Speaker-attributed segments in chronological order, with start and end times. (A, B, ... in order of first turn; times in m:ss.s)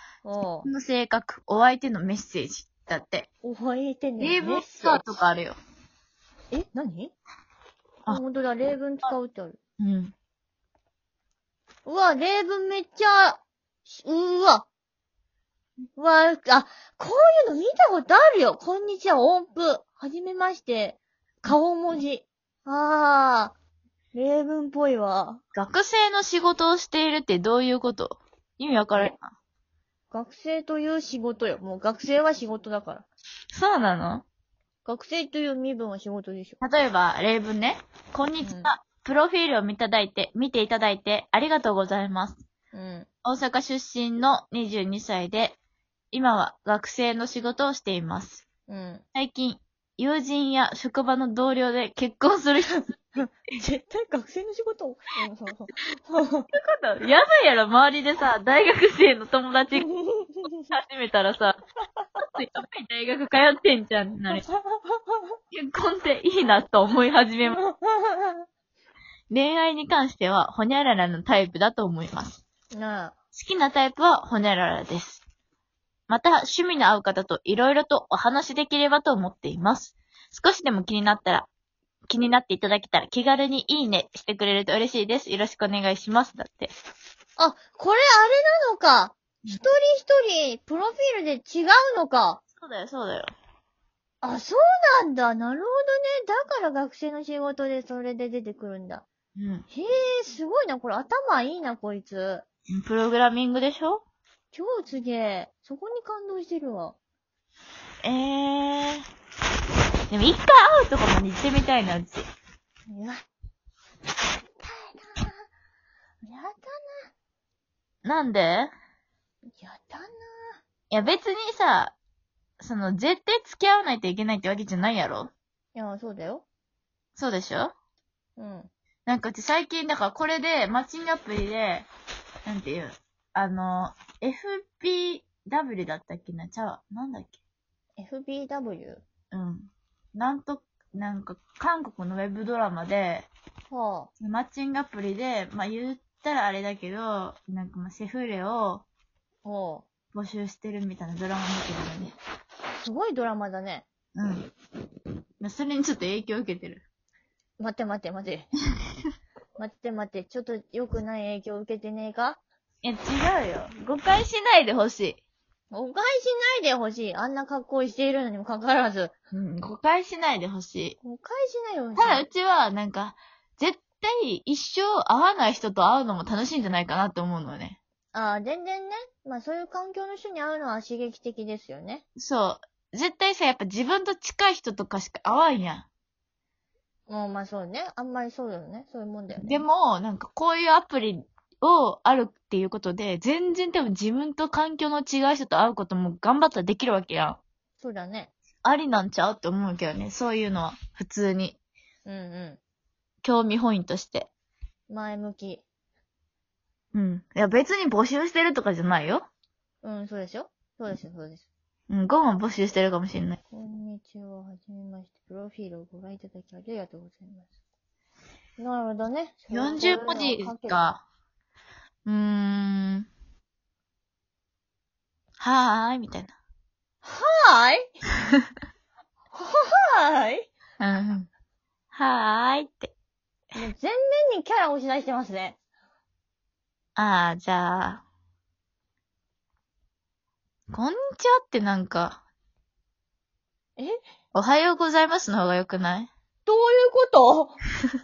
0:00.2-0:00.7 A
0:00.6-0:03.3 B
0:03.4-0:05.0 A
0:04.2-0:05.6 B
0:06.5-0:07.1 A
0:08.1-0:09.6 A
0:09.8-0:10.1 B
0:11.8-0:14.6 A
0:16.0-0:23.5 A
0:24.1-0:25.4 A
0:25.5-0:29.2 B
0:30.1-0:33.0 A
0:33.5-0:34.2 B
0:34.8-0:36.6 A
0:36.6-0:42.4 B
0:38.4-0:38.7 A
0:42.7-0:43.1 A
0:43.2-0:45.6 B
0:46.1-0:48.4 B
0:48.7-0:49.0 A
0:49.1-0:53.2 B
0:53.2-0:56.5 A
0:56.5-0:59.9 B
0:59.8-1:00.5 A
1:00.7-1:01.6 B
1:02.3-1:04.4 B
1:04.3-1:05.3 A
1:05.5-1:07.6 B
1:07.5-1:08.4 A
1:09.3-1:12.4 B
1:12.7-1:13.1 A
1:13.3-1:15.2 B
1:16.1-1:21.5 B
1:22.1-1:26.7 B
1:27.4-1:32.4 A
1:32.6-1:33.3 B
1:34.2-1:39.0 A
1:39.4-1:39.6 B
1:39.7-1:42.4 A
1:42.7-1:44.0 B
1:44.5-1:47.0 A
1:48.0-1:49.0 B
1:50.1-1:52.2 B
1:52.9-1:53.2 A
1:54.6-1:55.4 A
1:56.2-1:57.1 A
1:58.0-1:58.7 B
1:59.5-2:00.6 A
2:00.9-2:01.9 B
2:02.6-2:05.3 B
2:05.7-2:06.4 A
2:07.2-2:07.7 B
2:08.4-2:08.7 A
2:09.0-2:11.9 B
2:12.4-2:17.4 B
2:18.0-2:19.0 A
2:19.3-2:23.3 B
2:23.7-2:24.1 A
2:24.2-2:28.8 B
2:29.4-2:29.8 A
2:30.1-2:32.1 B
2:32.8-2:33.8 A
2:34.1-2:34.5 B
2:35.4-2:36.8 B
2:37.6-2:38.5 A
2:39.6-2:42.4 A
2:42.8-2:45.2 B
2:45.7-2:49.1 A
2:49.3-2:51.0 B
2:51.0-2:52.2 A
2:52.0-2:57.8 B
2:58.1-3:02.0 A
3:02.2-3:05.9 B
3:07.1-3:09.6 A
3:09.3-3:17.4 B
3:17.8-3:18.3 A
3:18.6-3:21.6 B
3:22.0-3:22.6 A
3:23.2-3:24.3 B
3:24.9-3:25.6 A
3:26.9-3:29.3 B
3:29.8-3:31.4 A
3:31.9-3:33.4 B
3:33.5-3:37.5 A
3:38.6-3:40.8 A
3:39.5-3:41.0 B
3:42.0-3:43.1 B
3:45.4-3:46.3 B
3:47.0-3:47.9 A
3:49.3-3:50.5 A
3:50.8-3:51.3 B
3:51.9-3:52.9 B
3:53.5-3:55.6 A
3:57.0-3:58.0 B
4:00.7-4:02.2 B
4:04.3-4:06.1 B
4:06.4-4:07.6 A